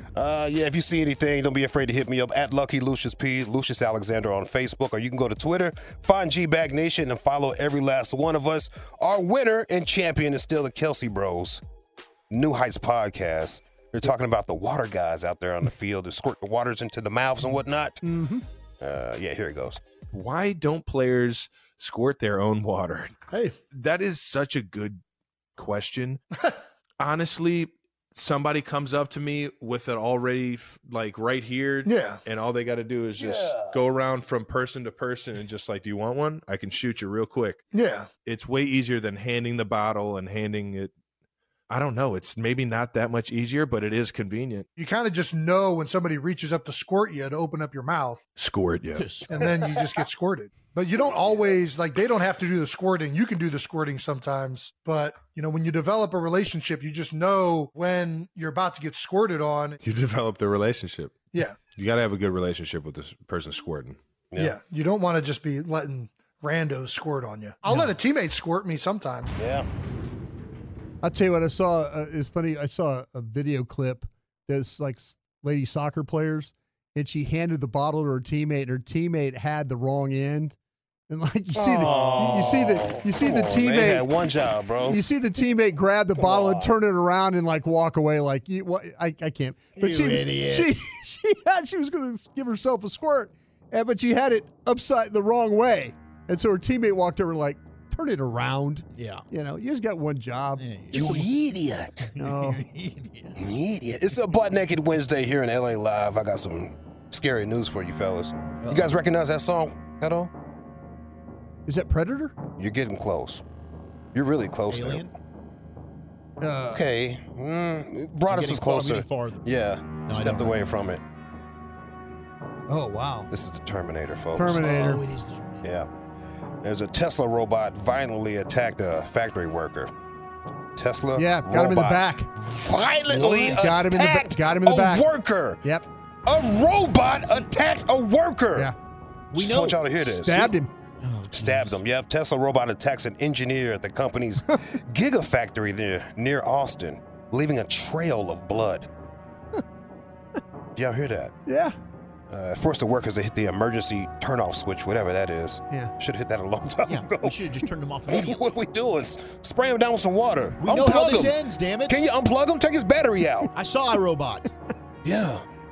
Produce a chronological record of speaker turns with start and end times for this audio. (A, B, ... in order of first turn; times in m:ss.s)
0:00.1-0:11.6 A
0:12.3-0:18.0 A
0:18.0-0:18.4 B
0:18.8-0:19.8 A
0:20.1-0:23.2 C
0:23.7-0:25.0 C
0:25.6-0:26.2 C
0:27.0-0:37.6 C
0:31.8-0:32.2 D
0:33.2-0:33.8 A
0:37.7-0:38.1 D
0:38.2-0:40.9 C
0:41.7-0:44.7 C
0:44.8-0:48.2 D
0:48.4-0:49.2 C
0:48.9-0:49.4 E
0:49.3-0:59.8 D
0:59.8-1:04.0 C
1:01.3-1:01.6 D
1:04.4-1:09.3 D
1:09.4-1:09.6 A
1:11.0-1:20.5 B
1:21.1-1:24.1 B
1:21.5-1:25.0 A
1:24.8-1:41.2 B
1:26.2-1:26.7 A
1:29.8-1:30.7 E
1:38.9-1:39.2 E
1:40.6-1:41.3 E
1:40.9-1:42.1 A
1:42.1-1:43.4 E
1:42.2-1:42.6 B
1:43.4-1:50.3 A
1:48.6-1:49.0 E
1:51.7-1:52.4 B
1:52.6-1:53.4 A
1:54.1-1:55.1 A
1:54.7-1:55.1 E
1:56.4-1:56.9 B
1:56.7-2:01.0 A
1:58.3-1:59.5 E
2:00.0-2:00.8 E
2:02.7-2:03.3 B
2:03.3-2:04.8 A
2:04.4-2:05.0 B
2:04.5-2:05.7 E
2:06.6-2:09.9 A
2:10.8-2:15.6 A
2:11.1-2:12.3 B
2:13.1-2:15.1 B
2:16.2-2:18.7 A
2:19.3-2:19.9 E
2:19.3-2:20.5 A
2:19.9-2:20.7 B
2:21.0-2:21.8 E
2:21.3-2:28.9 A
2:30.8-2:31.3 A
2:31.4-2:31.7 B
2:32.3-2:37.4 A
2:36.8-2:38.4 E
2:38.1-2:43.5 A
2:40.6-2:42.0 E
2:43.5-2:44.5 E
2:45.0-2:45.4 A